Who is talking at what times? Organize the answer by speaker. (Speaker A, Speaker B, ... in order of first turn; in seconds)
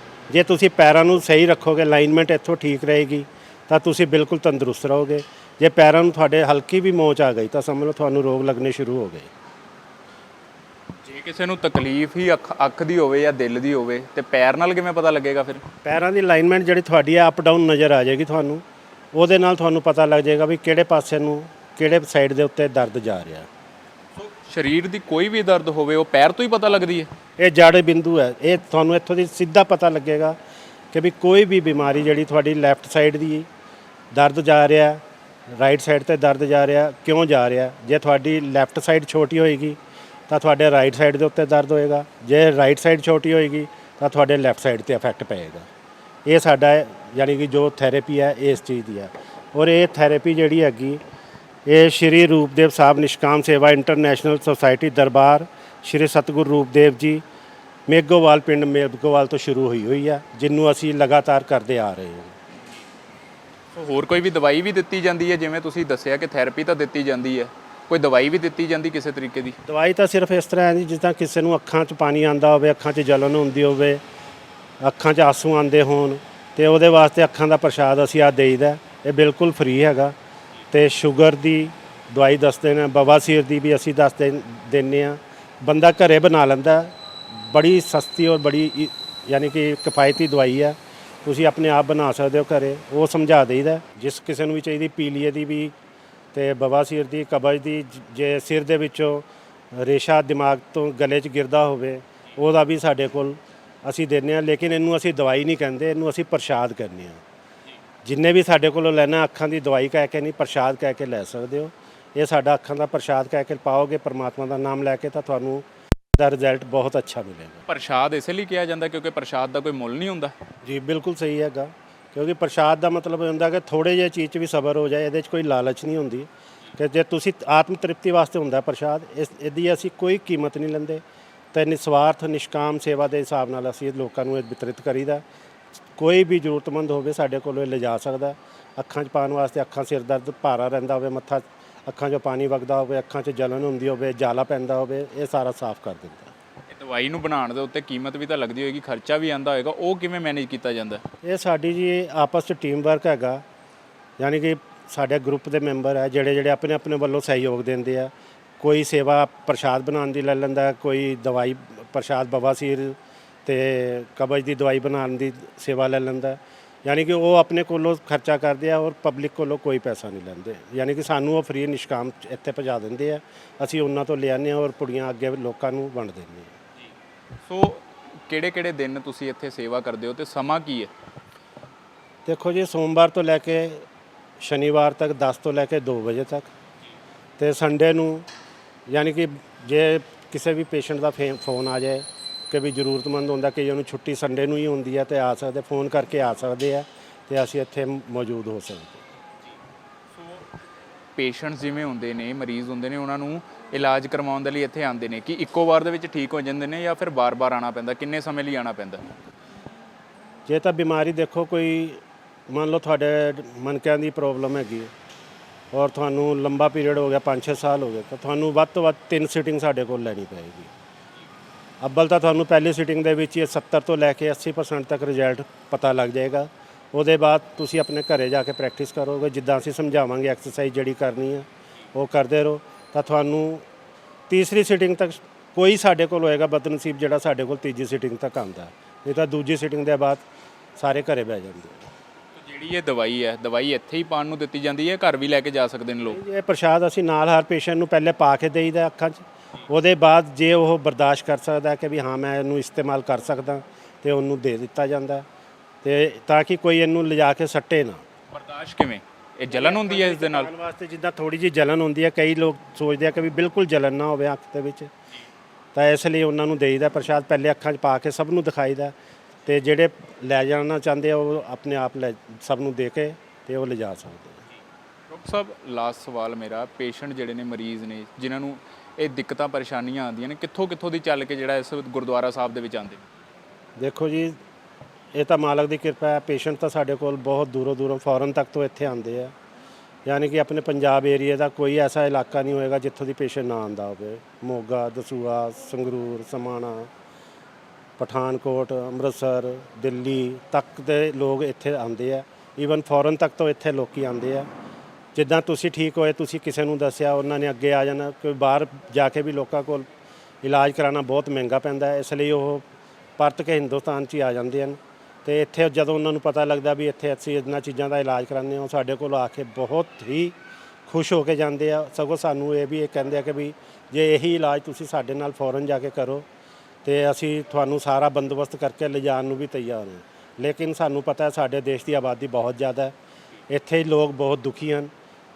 Speaker A: 0.3-9.3, 15.8-23.5, 27.4-30.4, 30.9-33.5, 34.1-35.0, 35.5-39.8, 40.3-45.7, 46.2-51.0, 51.6-57.2, 57.9-62.3, 69.7-74.0, 74.8-80.1, 80.7-95.7, 96.3-107.2, 108.0-117.6, 120.6-131.0, 131.5-135.2, 135.9-146.3, 151.2-153.4, 154.2-176.5, 182.2-183.8, 184.4-186.5, 187.4-188.3, 188.9-199.0, 210.4-214.9, 215.7-220.7, 221.8-233.7, 234.3-240.2, 240.8-241.9, 246.1-255.2, 255.8-258.0, 259.5-264.9, 265.7-268.9, 269.4-274.4, 283.8-284.4, 285.1-289.3, 290.1-296.9, 298.0-304.5, 305.1-309.8, 310.4-312.6, 313.2-320.3, 320.9-326.2, 326.8-332.9, 333.5-334.9
Speaker B: 11.0-15.6, 24.2-27.1, 63.7-69.6, 117.7-120.3, 146.7-151.0, 177.4-180.9, 201.2-209.0, 242.4-246.2, 258.3-260.5, 275.1-283.0